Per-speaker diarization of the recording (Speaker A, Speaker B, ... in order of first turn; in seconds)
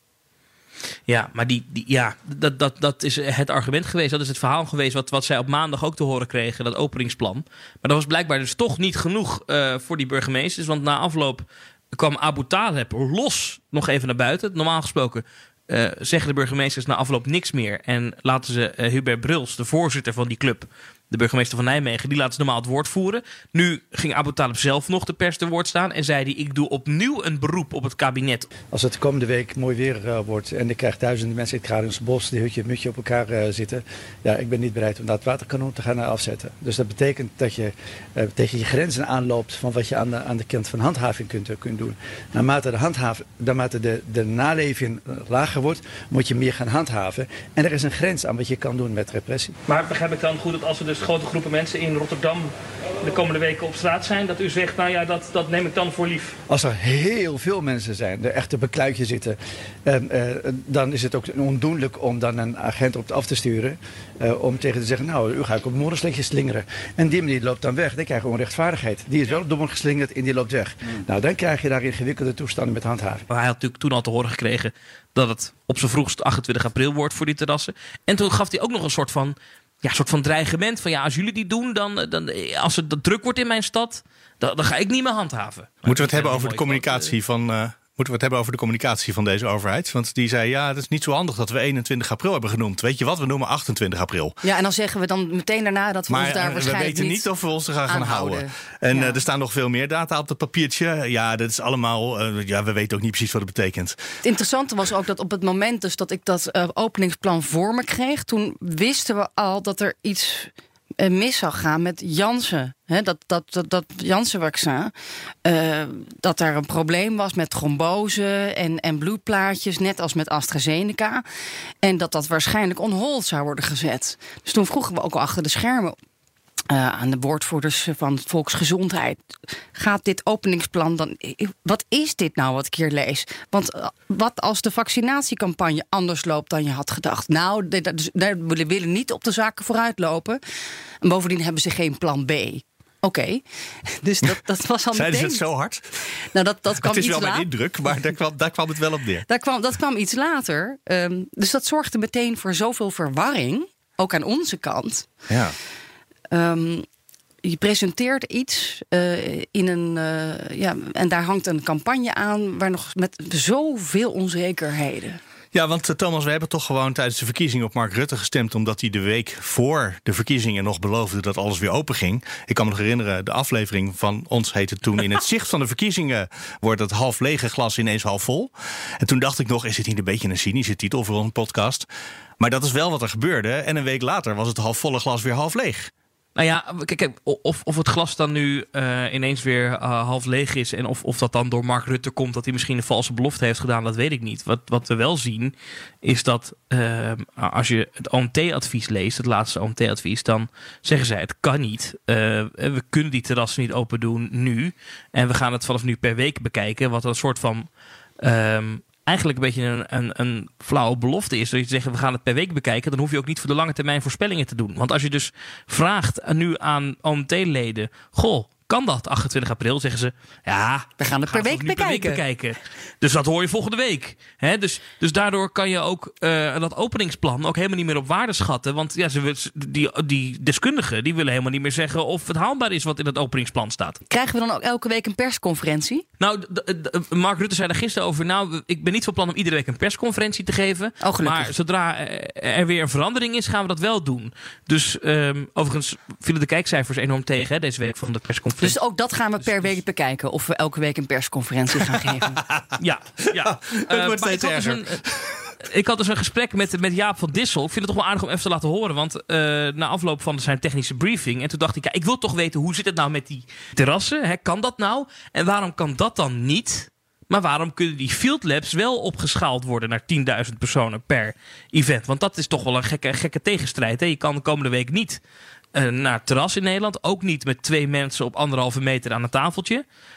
Speaker A: 1.1-28.5, 49.7-56.4, 73.3-87.1, 186.4-207.7, 208.2-234.0, 236.2-248.7, 252.8-255.0, 255.6-275.2, 275.7-279.8
Speaker B: 28.7-49.6, 56.5-73.2
Speaker C: 85.8-94.4, 96.1-104.0, 144.9-146.0, 146.8-149.3, 155.3-155.6, 165.5-181.9, 182.4-185.9, 253.3-255.5
Speaker D: 94.4-97.3, 97.9-99.2, 104.2-114.9, 115.4-121.2, 121.8-126.0, 126.7-129.2, 129.8-140.4, 141.0-145.4, 146.2-147.5, 149.3-155.1, 156.3-156.9, 157.4-165.2, 221.0-222.2, 234.1-236.1, 241.0-241.5, 248.6-252.4